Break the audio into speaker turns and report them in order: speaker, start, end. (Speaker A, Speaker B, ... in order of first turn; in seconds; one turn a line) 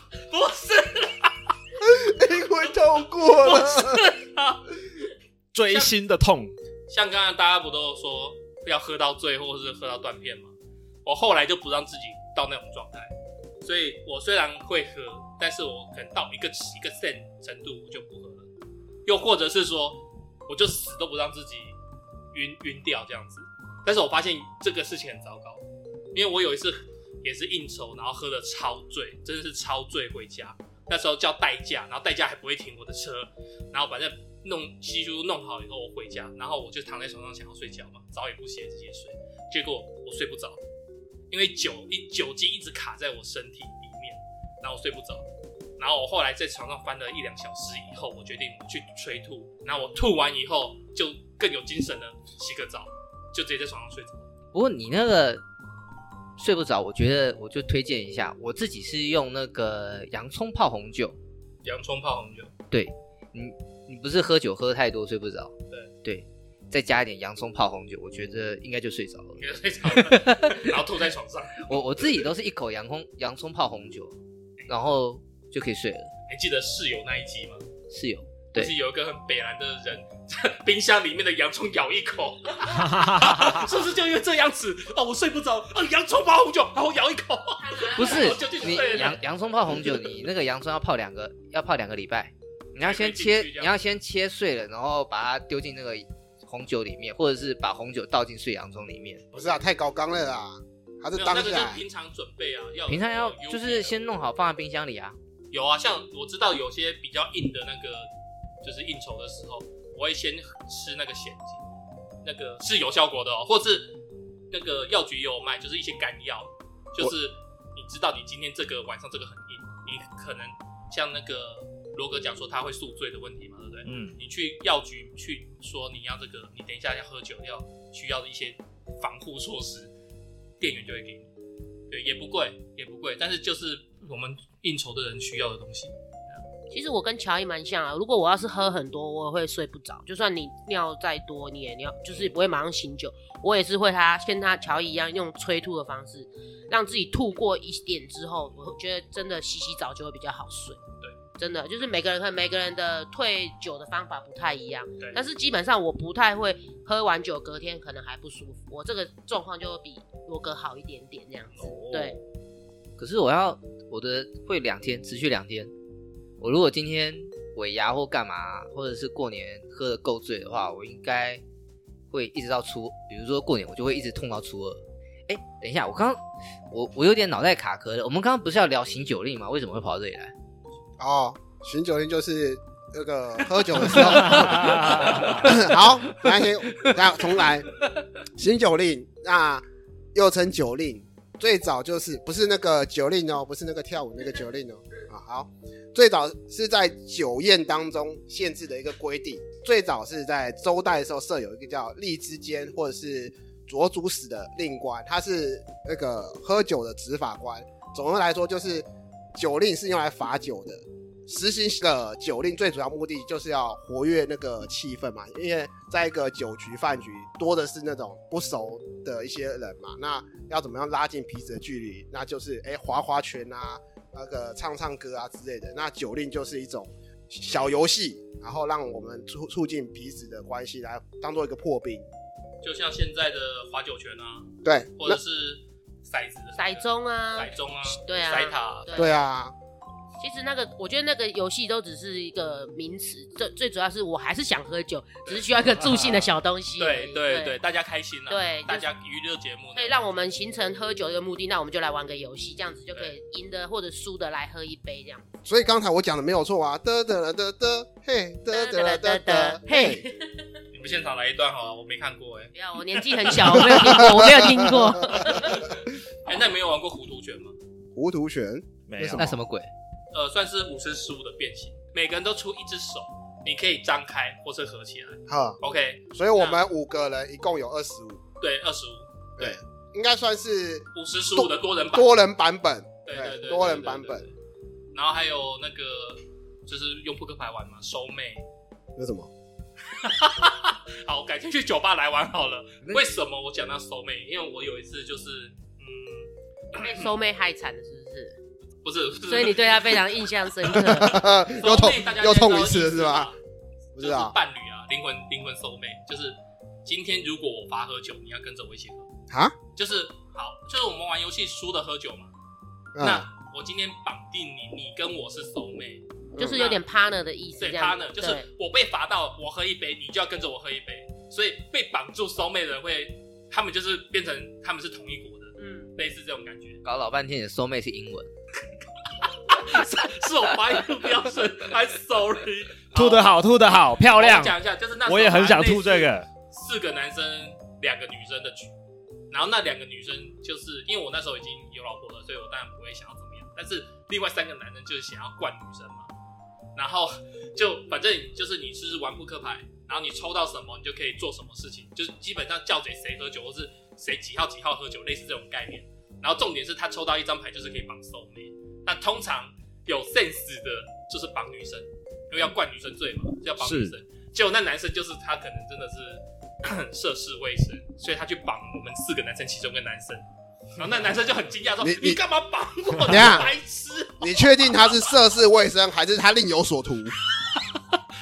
Speaker A: 0.3-1.3
Speaker B: 1.8-4.0
Speaker A: 3.4-5.1
Speaker C: 5.5-6.5
Speaker A: 6.9-10.5
Speaker A: 11.0-18.5
Speaker A: 19.1-21.8
Speaker A: 22.3-40.6
Speaker A: 41.3-45.2
Speaker A: 45.8-54.3
Speaker D: 54.5-55.4
Speaker D: 56.4-61.2
Speaker A: 61.6-62.5
Speaker D: 62.7-70.7
Speaker A: 69.4-72.2
Speaker D: 71.7-74.2
Speaker D: 74.7-76.1
Speaker A: 76.3-77.7
Speaker D: 77.9-78.7
Speaker A: 78.5-89.2
Speaker C: 82.7-83.7
Speaker E: 87.6-89.2
Speaker D: 87.9-99.2
Speaker A: 92.8-93.7
Speaker B: 99.3-101.8
Speaker A: 101.1-103.9
Speaker D: 102.9-105.2
Speaker A: 105.5-108.1
Speaker A: 108.6-111.7
Speaker A: 112.2-114.0
Speaker A: 114.5-129.9
Speaker C: 123.8-124.2
Speaker A: 130.6-131.3
Speaker A: 131.9-136.4
Speaker E: 136.7-150.8
Speaker E: 151.4-162.2
Speaker D: 163.0-165.7
Speaker D: 166.4-171.4
Speaker D: 172.1-180.3
Speaker B: 181.0-187.7
Speaker C: 184.0-185.5
Speaker B: 188.3-232.1
Speaker A: 232.6-239.1
Speaker B: 234.6-235.2
Speaker E: 236.6-239.2
Speaker B: 238.9-239.5
Speaker E: 240.2-247.6
Speaker A: 245.2-246.2
Speaker A: 246.8-250.0
Speaker E: 248.3-248.9
Speaker E: 249.7-255.2
Speaker B: 255.4-260.1
Speaker E: 258.5-260.3
Speaker A: 260.7-263.9
Speaker E: 262.5-265.7
Speaker B: 263.8-265.5
Speaker A: 265.1-267.6
Speaker B: 267.9-268.7
Speaker C: 268.9-269.4
Speaker D: 269.0-269.7
Speaker A: 270.1-276.6
Speaker B: 275.3-275.6
Speaker B: 276.1-278.2
Speaker A: 278.4-279.6
Speaker B: 279.4-284.2
Speaker A: 280.9-282.2
Speaker A: 283.1-284.3
Speaker A: 284.9-288.4
Speaker B: 288.9-289.3
Speaker A: 289.9-297.1
Speaker E: 296.7-298.4
Speaker A: 298.8-303.4
Speaker E: 299.3-301.2
Speaker B: 300.8-303.3
Speaker B: 303.9-304.3
Speaker A: 304.0-309.1
Speaker B: 309.3-309.6
Speaker A: 309.8-312.3
Speaker B: 312.9-313.3
Speaker A: 313.0-316.8
Speaker E: 316.3-318.4
Speaker B: 316.4-316.7
Speaker A: 317.6-326.8
Speaker E: 325.6-325.9
Speaker D: 326.8-328.3
Speaker A: 329.3-333.3
Speaker C: 332.9-336.3
Speaker A: 334.1-338.7
Speaker A: 339.3-346.1
Speaker A: 346.8-370.2
Speaker C: 363.6-363.9
Speaker A: 370.8-375.0
Speaker B: 371.8-372.2
Speaker B: 373.0-373.5
Speaker B: 374.2-377.1
Speaker A: 377.4-377.8